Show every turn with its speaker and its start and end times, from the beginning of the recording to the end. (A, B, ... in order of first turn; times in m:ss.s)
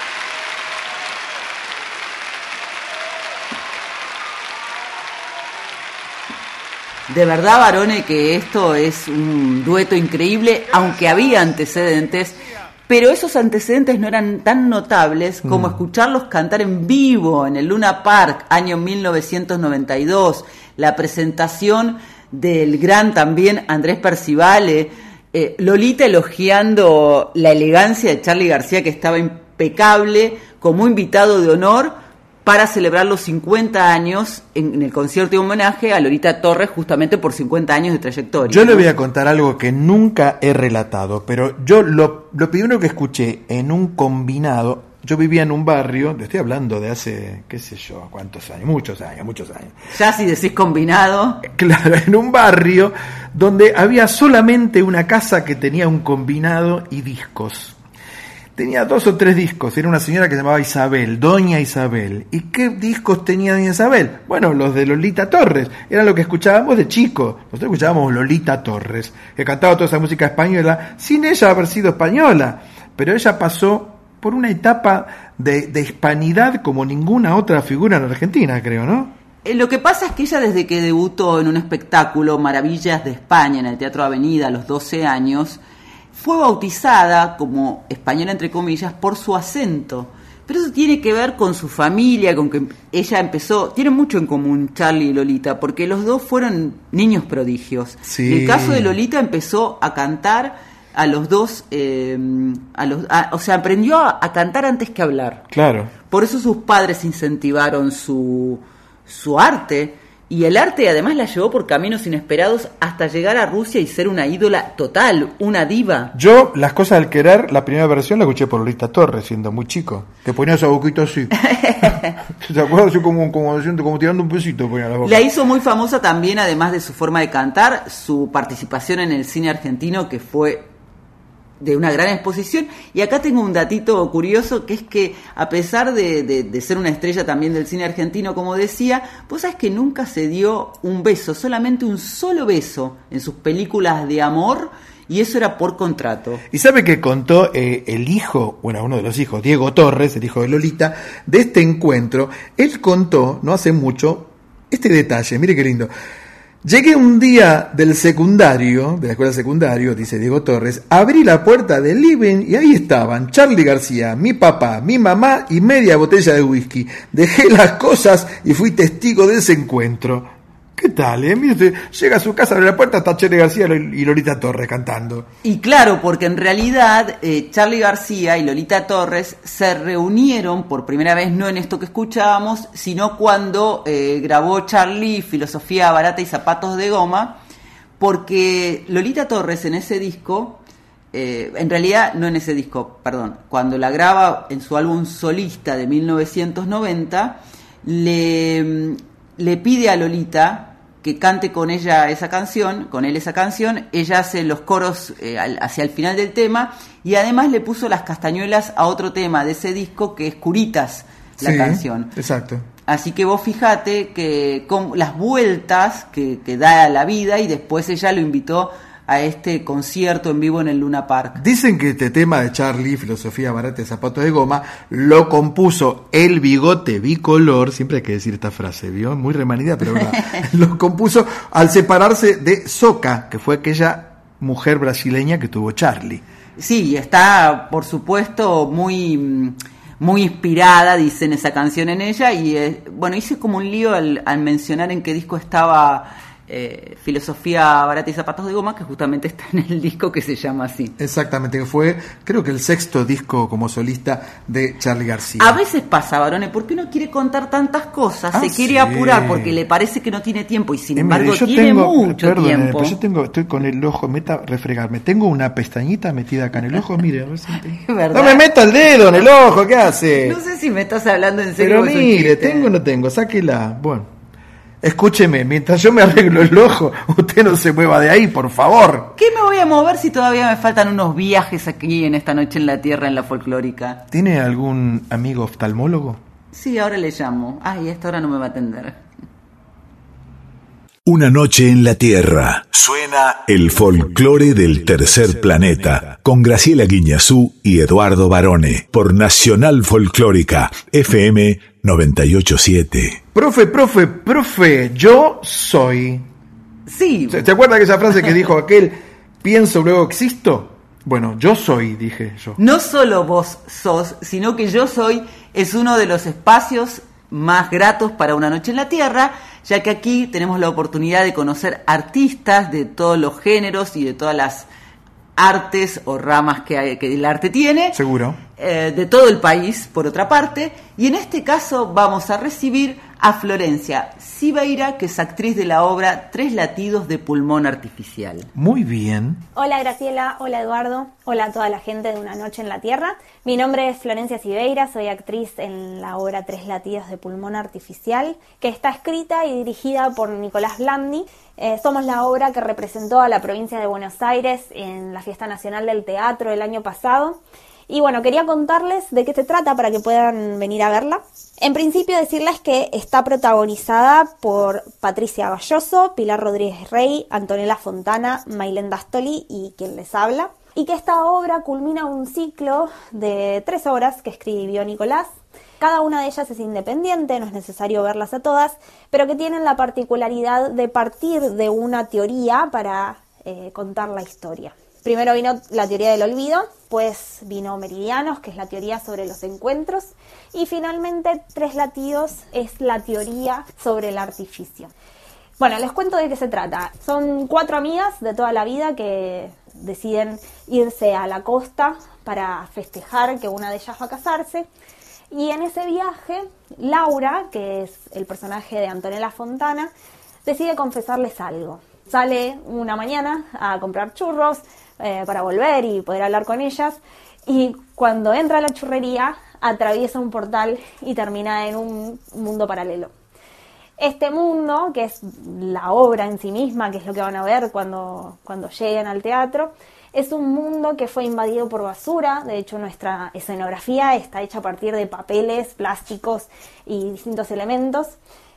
0:07.1-0:38.9 A
0:15.4-0:15.8 B
0:38.4-0:49.7 B
0:49.9-0:51.4 A
0:51.5-0:57.8 B
0:58.6-1:19.1 B
1:19.4-1:25.6 A
1:26.1-1:45.4 A
1:38.0-1:39.0 B
1:45.5-1:45.9 B
1:46.1-1:56.1 A
1:56.1-2:01.3 B
2:01.4-2:02.1 A
2:02.4-2:05.2 B
2:05.0-2:10.7 A
2:11.6-2:26.4 A
2:26.5-2:35.9 B
2:36.6-2:55.3 B
2:55.4-3:07.4 A
3:08.0-3:10.6 A
3:11.1-3:32.1 A
3:31.4-3:32.7 B
3:32.9-3:41.4 A
3:41.4-3:56.2 B
3:56.6-4:10.9 A
4:11.0-4:15.6 B
4:15.4-4:23.0 A
4:18.3-4:19.6 B
4:21.0-4:30.4 B
4:27.5-4:28.4 A
4:30.2-4:32.7 A
4:31.6-4:34.1 B
4:34.8-4:39.1 B
4:39.2-4:44.0 A
4:44.1-4:46.2 B
4:46.5-4:49.0 A
4:51.1-5:03.2 C
5:03.4-5:06.3 B
5:06.9-5:07.4 A
5:07.3-5:12.6 B
5:12.6-5:24.7 A
5:25.4-5:28.0 A
5:27.9-5:28.4 B
5:28.6-5:38.5 A
5:38.6-5:39.4 B
5:39.6-6:15.3 D
6:15.8-6:34.9 D
6:35.6-6:44.7 D
6:45.3-6:49.9 D
6:50.4-7:03.1 D
7:04.0-7:18.2 D